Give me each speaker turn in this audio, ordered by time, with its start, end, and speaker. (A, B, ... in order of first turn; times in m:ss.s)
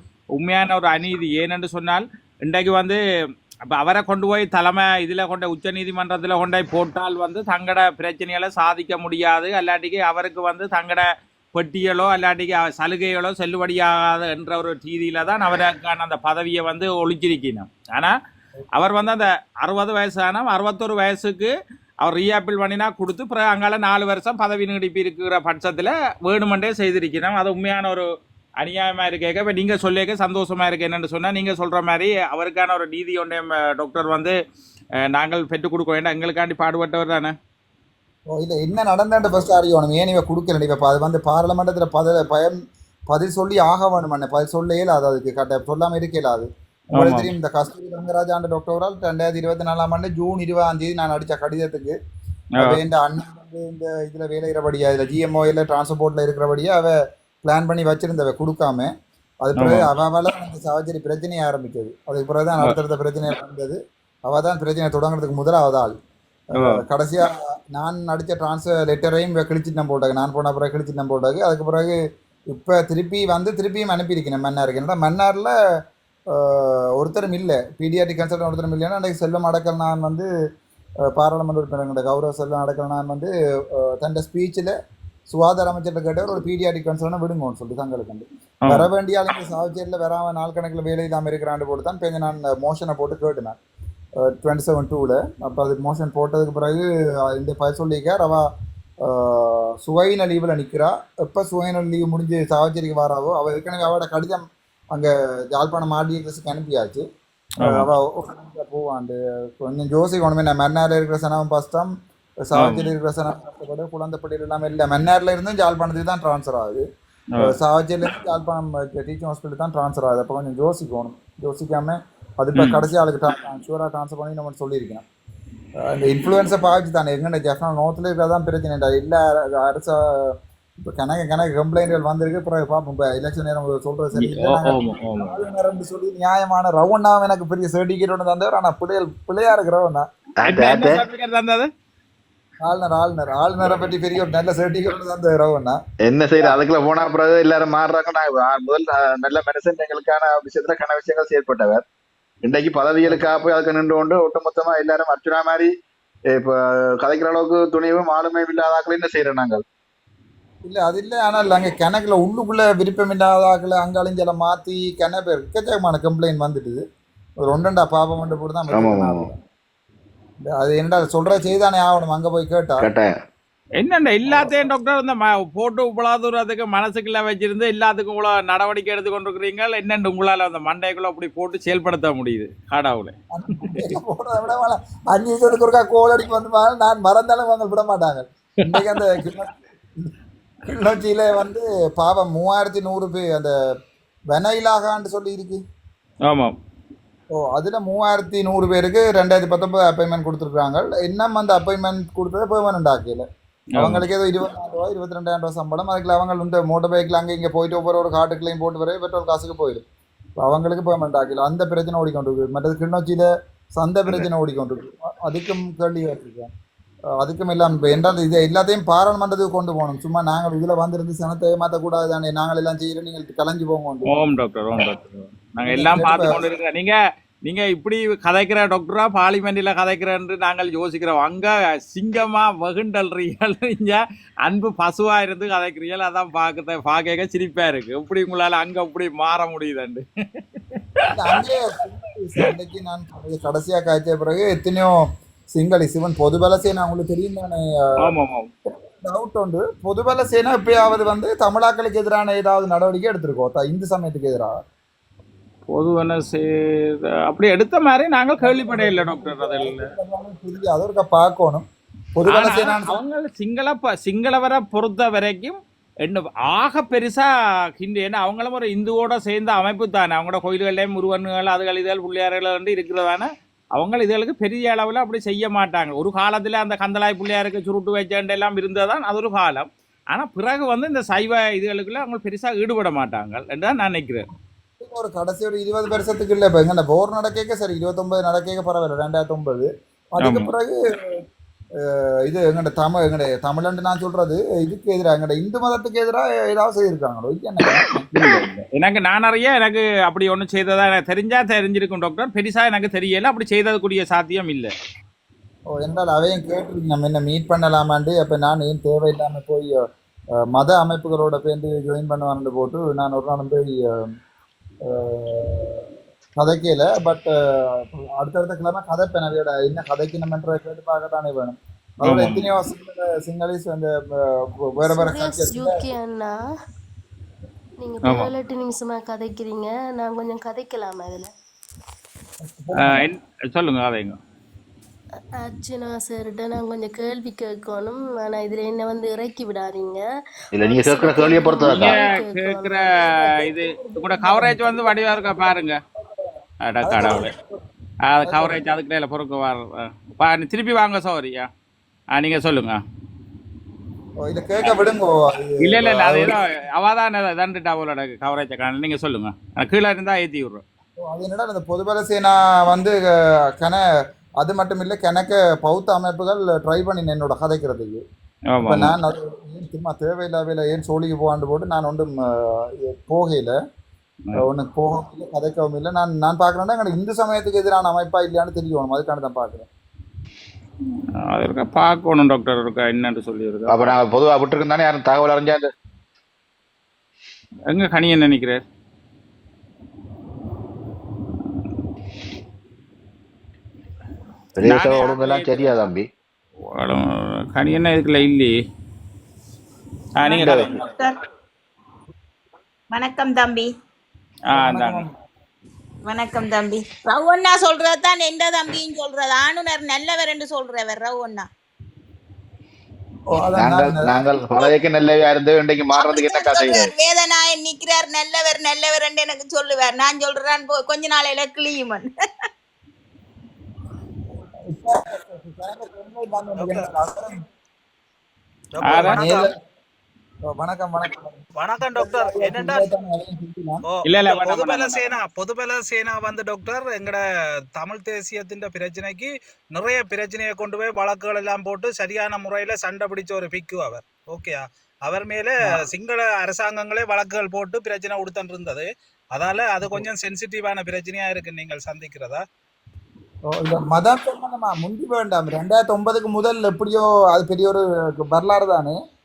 0:00.4-0:03.0 A
0:03.7-0:18.1 A
0:18.7-0:28.1 A
0:28.6-0:34.3 A
0:35.1-0:37.3 A
0:38.3-0:42.6 B
0:43.1-0:52.0 B
0:47.0-0:47.3 A
0:52.6-0:58.9 B
0:59.4-1:05.9 B
0:59.6-0:59.9 A
1:06.5-1:06.8 A
1:06.6-1:11.9 B
1:12.5-1:15.5 B
1:16.3-1:20.3 B
1:21.1-1:24.7 B
1:25.3-1:33.6 B
1:34.2-1:38.5 B
1:39.0-1:47.0 B
1:47.6-1:51.9 B
1:47.6-1:47.9 A
1:52.4-1:56.8 B
1:52.6-1:52.9 A
1:57.4-2:05.0 B
2:02.6-2:02.8 A
2:05.8-2:20.1 B
2:14.1-2:15.4 A
2:20.4-2:21.0 C
2:20.4-2:21.7 A
2:22.6-2:25.8 B
2:26.0-2:31.8 C
2:32.4-2:35.7 C
2:36.3-2:39.6 C
2:40.6-2:46.8 B
2:47.4-2:49.4 B
2:48.7-2:49.2 C
2:50.5-2:52.8 B
2:52.8-2:53.1 C
2:53.8-3:03.9 A
2:54.2-2:54.7 B
3:03.3-3:10.1 B
3:08.7-3:09.0 A
3:10.7-3:13.5 B
3:14.3-3:15.6 B
3:16.2-3:16.5 A
3:17.3-3:23.2 B
3:23.8-3:24.0 A
3:23.8-3:29.8 B
3:30.4-3:36.5 B
3:37.2-3:44.1 B
3:44.1-4:00.0 A
3:45.6-3:46.4 B
4:01.0-4:01.4 A
4:01.0-4:05.0 B
4:05.5-4:08.1 B
4:08.0-4:08.5 A
4:08.7-4:14.6 B
4:15.7-4:19.9 A
4:18.4-4:21.6 B
4:22.2-4:23.0 B
4:22.3-4:44.2 A
4:44.8-4:51.2 B
4:50.2-4:50.5 A
4:51.8-4:58.0 B
4:58.1-5:04.7 A
5:05.7-5:09.8 B
5:10.5-5:14.1 B
5:14.8-5:25.9 B
5:22.0-5:22.4 A
5:24.8-5:26.3 D
5:27.8-5:31.3 D
5:28.0-5:28.3 A
5:32.4-5:33.0 B
5:32.8-5:34.2 A
5:35.4-5:42.4 D
5:40.5-5:42.0 C
5:41.6-5:45.8 A
5:42.4-5:46.2 B
5:46.7-5:47.3 A
5:46.8-5:47.6 B
5:48.1-5:51.5 A
5:48.2-5:48.6 B
5:52.1-5:52.8 A
5:54.2-5:56.4 B
5:55.6-6:00.6 A
6:01.0-6:03.0 B
6:03.5-6:03.8 B
6:04.4-6:08.0 B
6:08.5-6:08.9 A
6:08.6-6:13.6 B
6:14.4-6:19.7 B
6:21.2-6:23.9 A
6:23.7-6:25.7 C
6:27.7-6:28.6 A
6:34.6-6:36.0 C
6:34.6-6:35.8 A
6:36.7-6:38.6 A
6:40.2-6:40.9 A
6:40.2-6:41.2 E
6:40.4-6:40.7 C
6:42.9-6:43.7 E
6:44.5-6:45.0 A
6:44.5-6:45.2 B
6:46.1-6:51.4 E
6:53.3-6:54.2 B
6:53.6-6:56.9 C
6:55.9-7:02.1 E
7:04.6-7:07.4 B
7:06.6-7:06.9 F
7:08.8-7:09.5 F
7:08.8-7:09.2 A
7:09.0-7:09.5 B
7:10.5-7:11.4 B
7:11.6-7:12.9 F
7:11.9-7:13.8 B
7:13.9-7:17.2 F
7:14.0-7:15.1 A
7:17.7-7:32.4 F
7:33.5-7:39.0 B